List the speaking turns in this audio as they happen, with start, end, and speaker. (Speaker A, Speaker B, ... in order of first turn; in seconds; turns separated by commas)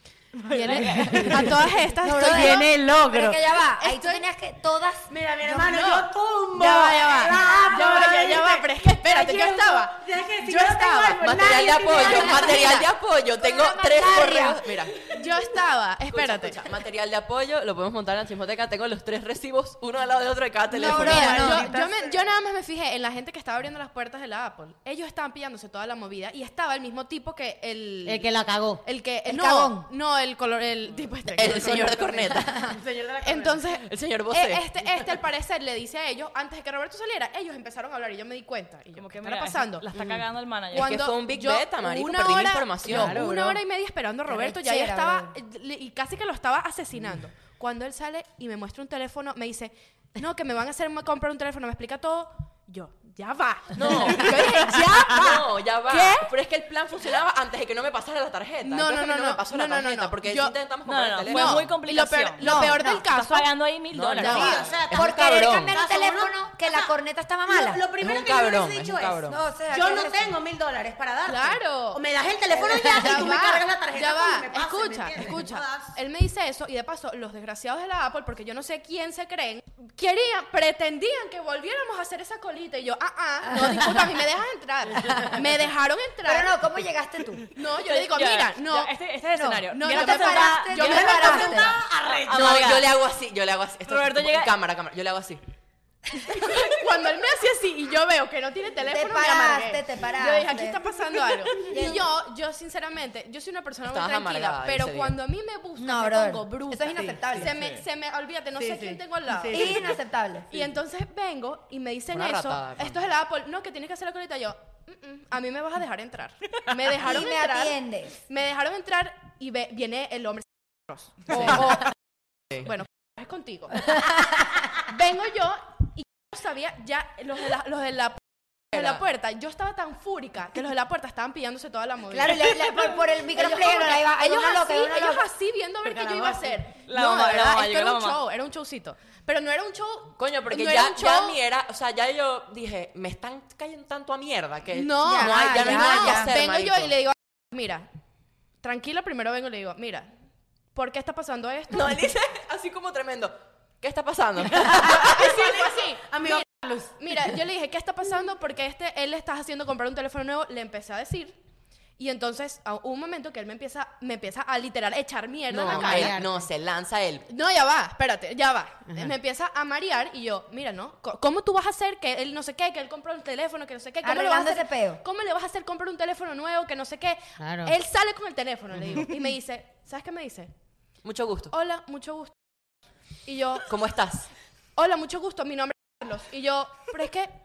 Speaker A: 0.4-1.7, Speaker B: 0.5-2.9, Speaker C: 2.0-5.7, Speaker D: 2.0-3.4, Speaker B: 3.6-4.2, Speaker D: 5.1-12.8, Speaker B: 5.6-11.2, Speaker E: 11.2-15.2, Speaker C: 12.0-14.7, Speaker B: 15.1-16.6, Speaker E: 16.1-21.6, Speaker C: 20.7-21.7, Speaker B: 20.9-28.3, Speaker D: 20.9-22.2, Speaker D: 28.1-28.8, Speaker B: 28.8-32.5, Speaker C: 29.3-29.9, Speaker E: 31.3-32.8, Speaker D: 31.4-33.6, Speaker B: 33.2-39.9, Speaker E: 33.8-34.6, Speaker A: 39.0-41.1, Speaker D: 40.0-40.2, Speaker B: 40.7-56.3, Speaker E: 40.7-43.2, Speaker D: 42.8-43.6, Speaker C: 44.3-45.4, Speaker E: 53.7-61.7, Speaker B: 58.6-60.5, Speaker A: 60.9-64.7, Speaker B: 61.3-63.5, Speaker C: 62.4-63.0, Speaker E: 63.9-65.8, Speaker B: 64.2-64.6, Speaker D: 64.2-66.9, Speaker C: 64.5-67.8, Speaker D: 67.5-76.0, Speaker E: 68.0-69.4, Speaker C: 69.3-70.3, Speaker B: 71.3-72.0, Speaker C: 72.5-73.4, Speaker B: 72.8-86.6, Speaker C: 86.2-87.5, Speaker B: 87.5-91.8, Speaker A: 87.8-92.9, Speaker C: 89.3-91.8, Speaker D: 90.8-92.8, Speaker E: 92.3-95.4, Speaker A: 93.9-94.5, Speaker B: 96.2-109.8, Speaker C: 98.9-100.8, Speaker C: 101.6-102.1, Speaker E: 103.8-105.2, Speaker C: 105.8-107.6, Speaker D: 107.0-107.6, Speaker D: 108.5-110.0, Speaker C: 109.5-110.5, Speaker B: 110.5-121.9, Speaker E: 112.1-113.0, Speaker C: 117.0-118.2, Speaker E: 121.3-121.8, Speaker B: 122.5-124.0, Speaker C: 124.0-124.6, Speaker B: 124.8-141.4, Speaker E: 128.7-129.1, Speaker C: 132.1-135.3, Speaker D: 135.8-136.6, Speaker A: 136.8-138.2, Speaker E: 140.2-146.9, Speaker B: 144.7-147.9, Speaker C: 145.1-146.3, Speaker B: 148.6-150.1, Speaker B: 150.7-152.0, Speaker E: 151.7-155.7, Speaker D: 154.6-157.3, Speaker B: 154.8-156.4, Speaker B: 157.0-161.4, Speaker B: 162.0-166.2, Speaker E: 165.5-167.3, Speaker D: 165.6-166.4, Speaker B: 167.3-180.5, Speaker C: 174.0-175.0, Speaker D: 177.4-177.8, Speaker E: 181.0-181.5, Speaker B: 181.5-182.3, Speaker B: 183.3-183.7, Speaker E: 183.7-184.3, Speaker B: 184.8-187.3